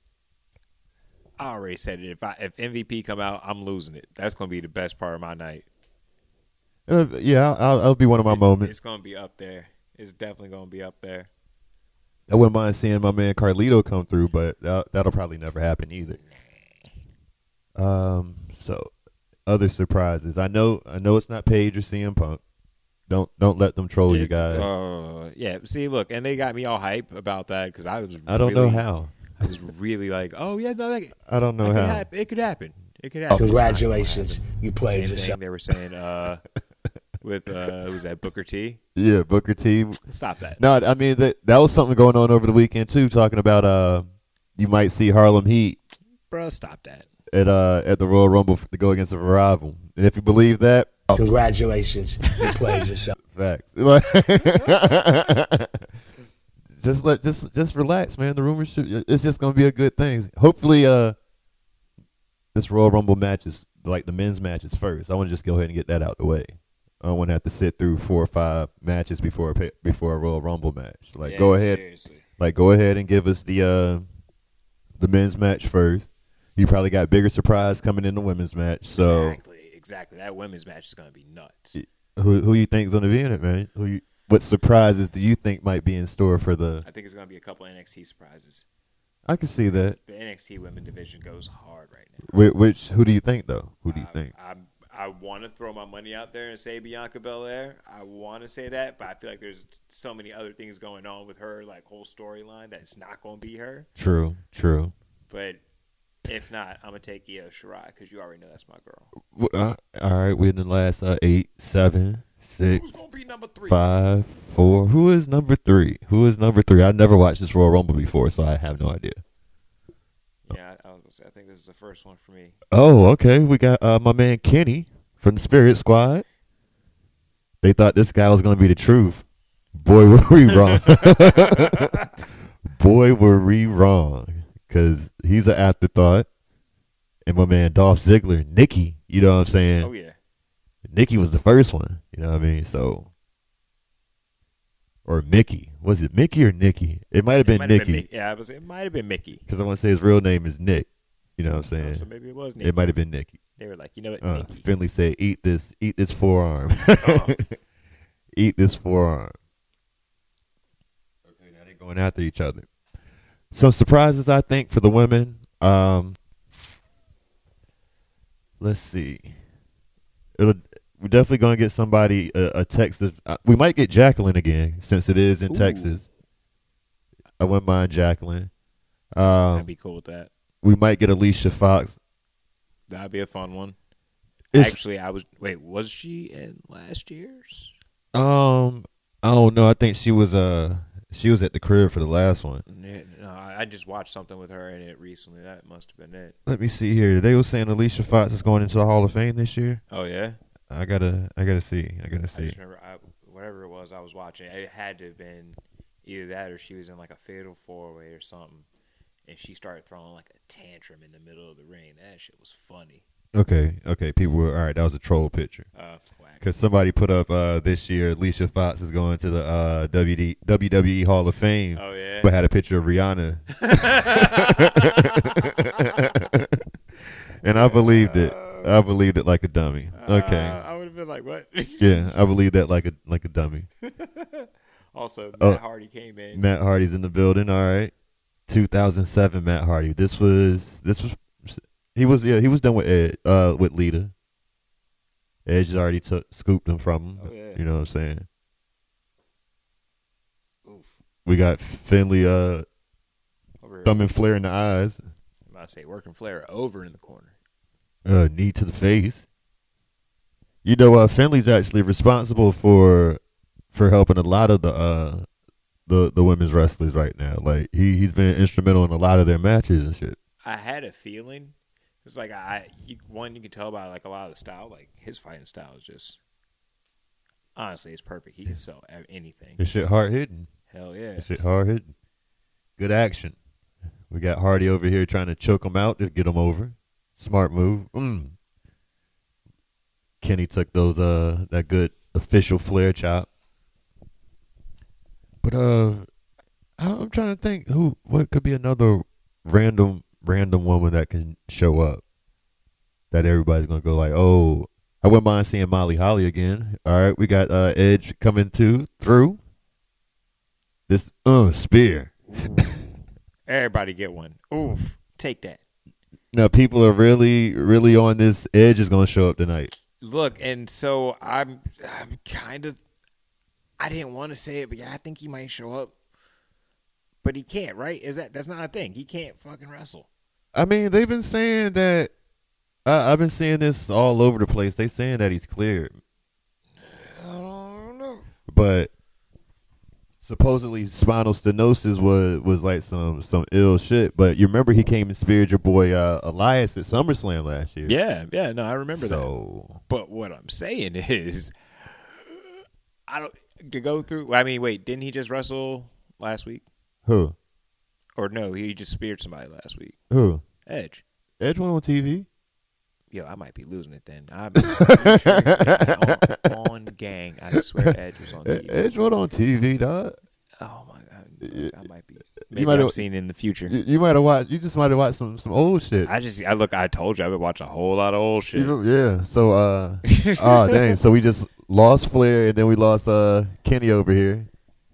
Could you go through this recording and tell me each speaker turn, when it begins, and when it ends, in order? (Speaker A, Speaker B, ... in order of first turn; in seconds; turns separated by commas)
Speaker A: 1.4-5.7, Speaker B: 6.9-8.7, Speaker A: 8.2-11.3, Speaker B: 12.3-16.2, Speaker A: 16.2-16.9, Speaker B: 17.8-18.9, Speaker B: 19.4-22.4, Speaker B: 23.1-24.7, Speaker A: 24.1-28.9, Speaker B: 28.3-29.1, Speaker A: 29.4-36.4, Speaker B: 31.3-32.1, Speaker B: 33.3-33.8, Speaker C: 33.3-35.4, Speaker A: 37.2-38.8, Speaker B: 39.0-40.0, Speaker A: 40.0-40.6, Speaker B: 40.6-44.0, Speaker B: 44.6-45.8, Speaker A: 46.3-47.0, Speaker B: 47.3-51.0, Speaker C: 51.1-53.1, Speaker B: 53.3-55.9, Speaker B: 56.8-61.1, Speaker B: 62.5-71.8, Speaker A: 71.2-72.2, Speaker B: 72.4-74.0, Speaker B: 75.0-79.4, Speaker A: 78.9-81.8, Speaker B: 81.7-86.8, Speaker A: 86.8-88.7, Speaker B: 89.2-90.0, Speaker A: 89.6-92.3, Speaker B: 92.3-94.3, Speaker A: 93.9-103.9, Speaker B: 104.0-104.9, Speaker A: 105.3-105.6, Speaker A: 106.2-109.1, Speaker B: 109.2-113.0, Speaker A: 112.7-113.9, Speaker B: 113.7-119.2, Speaker A: 120.5-122.6, Speaker B: 122.7-126.2, Speaker B: 127.6-131.9, Speaker A: 130.6-132.1, Speaker B: 132.7-136.3, Speaker B: 137.2-139.9, Speaker A: 139.8-140.2, Speaker B: 140.8-143.1, Speaker B: 145.1-148.0, Speaker A: 147.4-149.4, Speaker B: 149.5-152.1, Speaker A: 151.8-152.9, Speaker B: 152.6-153.4, Speaker A: 153.6-154.7, Speaker B: 154.2-157.5, Speaker A: 157.0-157.4, Speaker B: 158.3-159.3, Speaker B: 161.3-162.7, Speaker B: 163.5-166.2, Speaker B: 168.6-169.3, Speaker B: 170.4-176.0, Speaker A: 175.5-176.0, Speaker B: 177.4-178.5, Speaker B: 179.1-179.7, Speaker A: 179.5-180.3, Speaker B: 180.6-182.0, Speaker A: 182.9-183.8, Speaker B: 184.5-184.8, Speaker A: 184.5-187.7, Speaker B: 188.1-192.6, Speaker A: 192.7-196.3, Speaker B: 196.4-199.8, Speaker A: 199.9-200.4, Speaker B: 200.7-202.6, Speaker A: 202.3-208.7, Speaker A: 209.3-213.0, Speaker B: 213.3-215.7, Speaker A: 215.7-216.4, Speaker B: 216.4-226.6, Speaker A: 221.7-222.3, Speaker A: 223.6-226.0, Speaker B: 227.4-230.6, Speaker A: 227.5-228.8, Speaker A: 229.9-232.2, Speaker B: 231.8-233.7, Speaker A: 233.8-236.5, Speaker B: 236.3-237.9, Speaker B: 238.5-244.1, Speaker B: 245.4-248.2, Speaker A: 247.2-247.6, Speaker A: 250.7-250.9, Speaker B: 251.2-252.6, Speaker A: 253.6-254.1, Speaker B: 253.8-255.0, Speaker A: 255.5-257.3, Speaker B: 258.0-259.2, Speaker B: 260.6-263.2, Speaker B: 263.7-265.2, Speaker B: 265.9-270.2, Speaker A: 270.4-276.2, Speaker A: 277.6-279.6, Speaker B: 279.6-280.5, Speaker A: 280.7-281.3, Speaker B: 281.2-281.9, Speaker B: 282.8-283.4, Speaker B: 284.1-288.3, Speaker B: 290.2-293.3, Speaker B: 295.4-296.1, Speaker B: 296.8-302.0, Speaker B: 303.1-309.4, Speaker B: 310.9-312.7, Speaker A: 312.3-315.6, Speaker B: 316.3-319.7, Speaker A: 320.0-322.8, Speaker A: 323.8-325.9, Speaker A: 327.2-330.1, Speaker B: 330.5-332.1, Speaker B: 332.8-335.9, Speaker A: 336.8-338.2, Speaker B: 338.5-338.9, Speaker B: 340.2-347.9, Speaker A: 347.8-349.3, Speaker B: 348.9-349.8, Speaker A: 349.9-356.6, Speaker B: 357.1-357.3, Speaker A: 358.2-359.9, Speaker B: 360.1-360.4, Speaker A: 360.6-361.0, Speaker B: 361.4-362.3, Speaker A: 363.1-369.0, Speaker B: 364.6-366.4, Speaker B: 368.4-370.1, Speaker A: 370.6-373.8, Speaker B: 371.4-371.7, Speaker B: 372.5-373.0, Speaker B: 373.7-376.1, Speaker A: 376.0-378.8, Speaker B: 378.5-384.5, Speaker A: 380.1-380.9